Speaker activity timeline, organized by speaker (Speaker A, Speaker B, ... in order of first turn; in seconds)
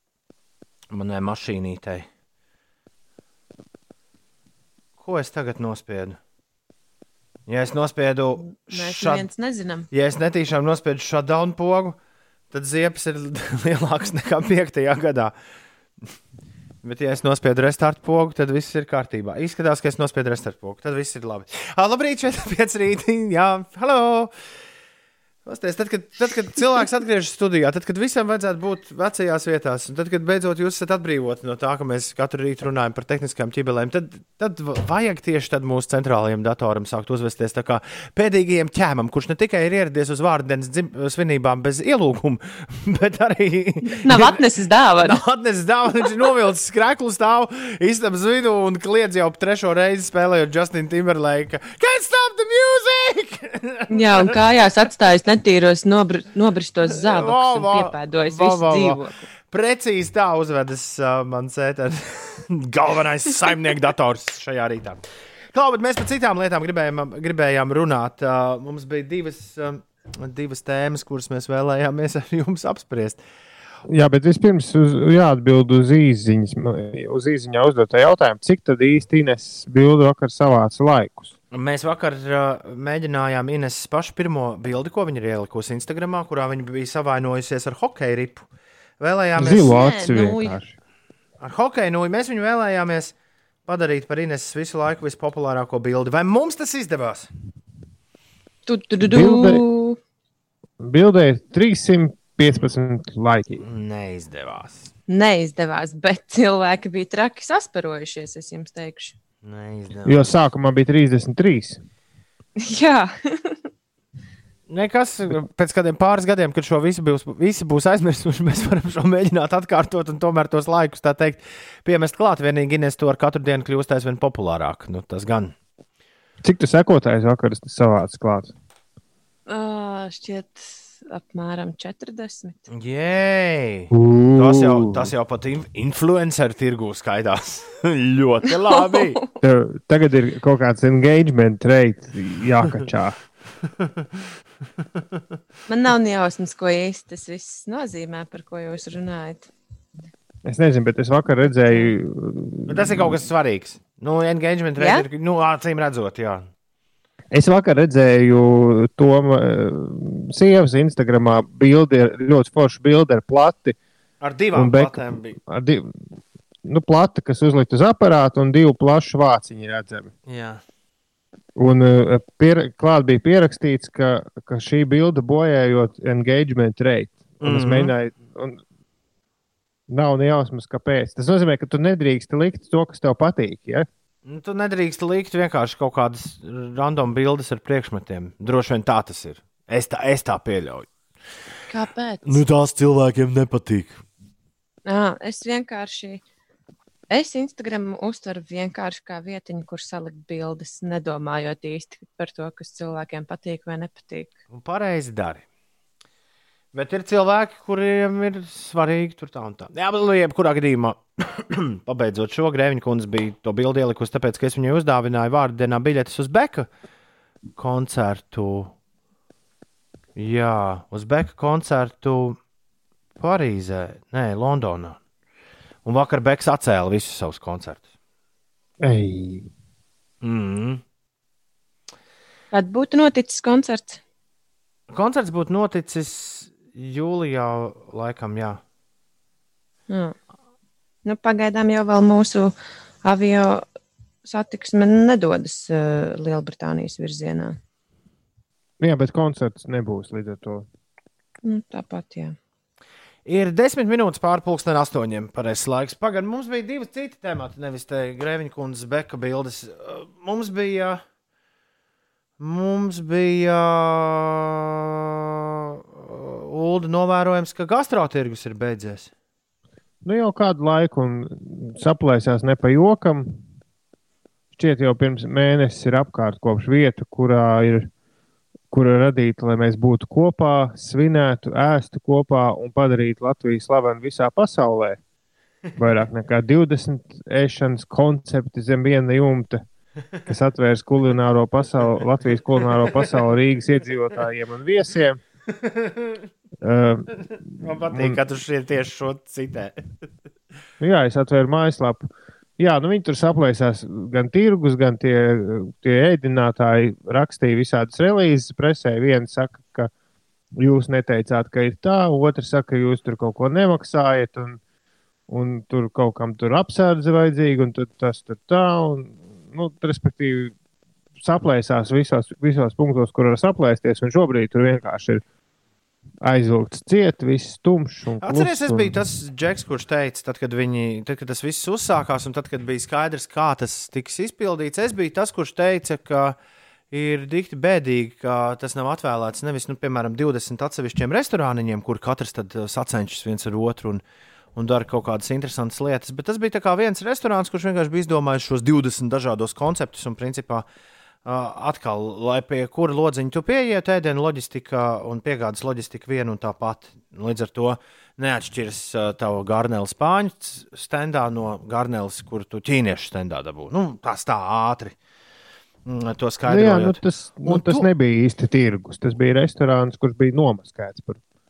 Speaker A: 0.9-2.1, 5.0-6.2, 7.5-9.3, 9.9-12.0, 12.5-15.3, 16.8-24.3, 25.5-44.4, 45.0-54.3, 56.9-65.0, 65.5-73.2, 81.5-88.5, 89.0-89.7, 91.4-93.1, 93.7-97.3, 103.6-104.9, 109.4-110.3, 114.7-125.5, 132.7-139.2, 152.7-156.5, 164.2-165.4, 170.3-170.6, 177.4-177.9, 184.3-190.9, 192.2-194.0, 204.5-205.4, 206.7-216.7, 217.6-218.7, 220.2-222.4, 223.2-225.0, 225.8-227.8, 230.2-230.8, 234.9-238.6, 253.3-261.0, 262.4-269.1, 295.6-296.2, 297.6-299.8, 328.2-336.4, 336.9-344.0, 344.6-350.7, 351.2-364.9, 365.9-367.9
Speaker B: 8.4-9.9, 44.0-45.2, 53.9-59.3, 89.5-90.6, 98.7-100.0, 105.1-109.2, 112.6-113.6, 129.5-132.7, 138.8-139.1, 145.7-149.5, 154.8-155.1, 191.7-192.4, 194.9-196.2, 197.1-204.3, 232.5-234.0, 239.9-240.2, 241.1-243.7, 244.2-247.6, 251.4-252.3
Speaker C: 73.9-81.3, 89.4-90.7, 99.0-99.6, 100.8-103.6, 110.0-111.8, 126.4-128.5, 133.9-135.1, 139.4-143.2, 150.5-153.2, 157.3-163.8, 164.5-165.9, 166.7-170.1, 171.6-178.6, 179.9-183.9, 228.8-229.5, 248.8-250.7, 270.0-273.4, 274.5-277.9, 278.7-285.0, 285.8-289.6, 290.3-295.2, 296.6-297.2, 297.9-298.2, 300.8-309.9, 310.6-314.6, 315.3-320.5, 321.2-325.2, 326.2-329.0, 366.5-371.2